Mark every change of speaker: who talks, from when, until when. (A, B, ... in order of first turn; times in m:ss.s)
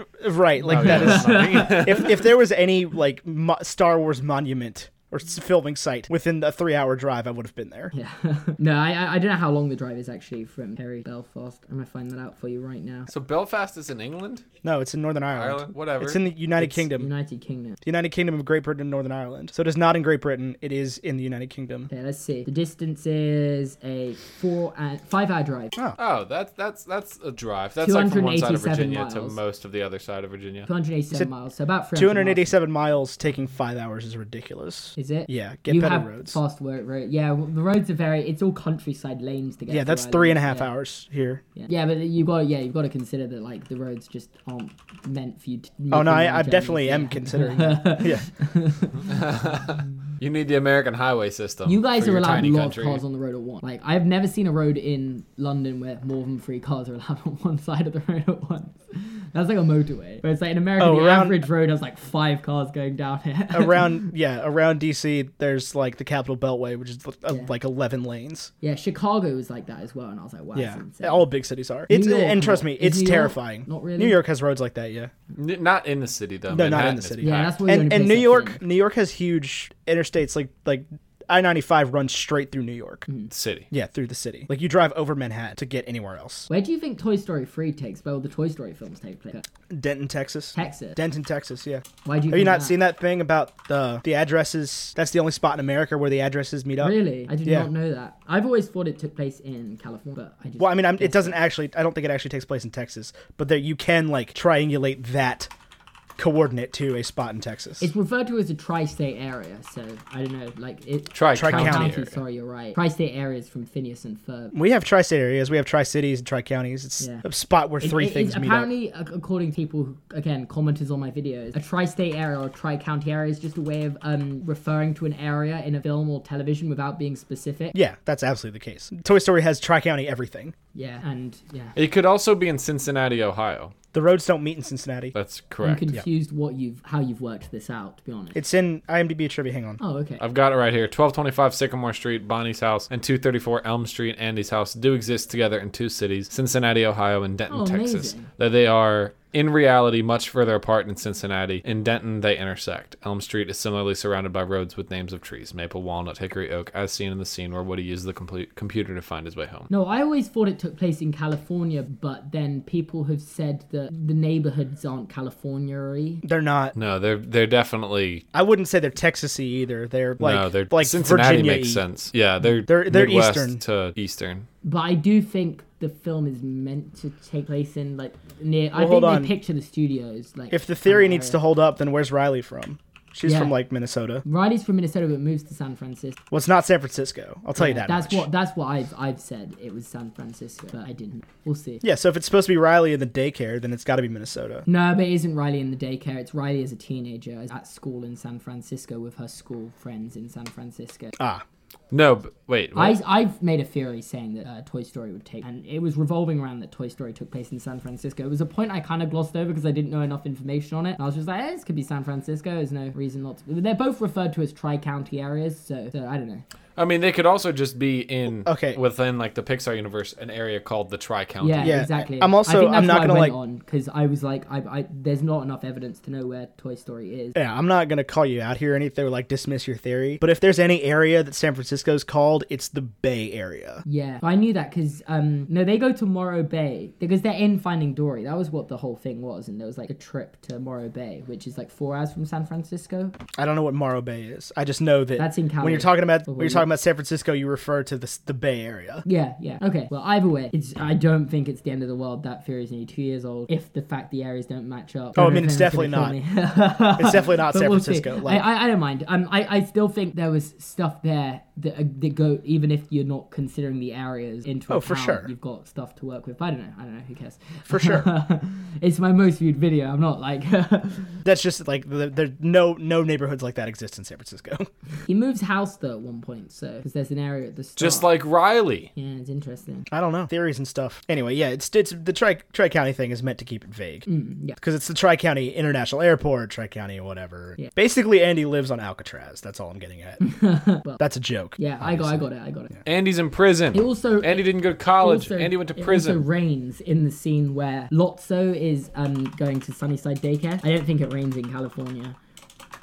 0:00.2-0:07.9 A
0:00.6-0:02.1 B
0:00.7-0:02.1 C
0:07.9-0:13.1 B
0:13.1-0:14.4 C
0:14.6-0:17.1 A
0:15.4-0:16.2 C
0:16.6-0:17.8 B
0:17.8-0:21.9 A
0:21.9-0:25.7 B
0:26.0-0:30.7 C
0:27.8-0:29.4 B
0:30.6-0:32.5 B
0:31.9-0:36.4 A
0:35.0-0:40.7 B
0:39.7-0:41.4 A
0:41.6-0:49.0 B
0:45.9-0:48.2 A
0:49.1-0:53.0 C
0:51.6-1:04.0 B
1:00.8-1:01.4 A
1:03.5-1:08.5 A
1:08.6-1:11.3 B
1:10.5-1:15.1 A
1:11.9-1:14.2 B
1:15.3-1:17.6 C
1:16.5-1:23.0 A
1:17.2-1:18.6 B
1:23.3-1:23.7 C
1:23.7-1:26.5 A
1:26.5-1:29.4 B
1:29.7-1:37.7 A
1:30.5-1:31.0 B
1:32.0-1:32.8 B
1:36.8-1:41.4 B
1:40.6-1:45.5 A
1:46.2-1:47.9 A
1:47.8-1:54.5 B
1:51.1-1:52.1 C
1:51.3-1:51.9 A
1:54.5-1:58.7 A
1:57.8-2:07.8 B
2:07.7-2:10.5 A
2:10.7-2:11.8 B
2:11.8-2:13.7 C
2:13.9-2:15.1 A
2:15.1-2:15.8 C
2:15.6-2:18.4 B
2:18.3-2:19.8 A
2:19.8-2:20.2 B
2:20.2-2:39.7 C
2:27.5-2:28.3 B
2:39.7-2:46.2 B
2:46.2-2:46.7 A
2:46.7-2:48.2 C
2:48.3-2:51.8 A
2:50.2-2:54.5 C
2:52.7-2:53.6 A
2:54.6-3:01.4 B
2:58.7-2:59.3 A
3:00.5-3:04.2 A
3:03.2-3:03.5 B
3:04.2-3:06.2 B
3:06.3-3:08.3 A
3:07.5-3:11.8 B
3:11.8-3:14.6 A
3:14.6-3:21.1 B
3:21.2-3:21.4 A
3:21.9-3:23.0 C
3:22.7-3:36.4 B
3:36.8-3:41.8 C
3:38.4-3:38.8 A
3:41.4-3:47.4 B
3:41.6-3:43.4 A
3:47.3-3:53.8 A
3:53.8-4:03.2 B
4:03.3-4:09.0 A
4:05.2-4:06.7 B
4:09.0-4:31.2 B
4:15.2-4:16.2 A
4:17.0-4:18.4 A
4:24.7-4:25.3 A
4:27.7-4:28.1 A
4:31.2-4:34.7 A
4:35.1-4:38.1 B
4:37.8-4:38.9 C
4:38.9-4:39.8 B
4:39.9-4:44.0 A
4:44.0-4:44.6 B
4:44.6-4:50.2 A
4:50.2-4:51.0 B
4:51.0-4:52.2 A
4:51.6-4:52.8 B
4:52.8-4:56.2 C
4:53.7-5:02.2 B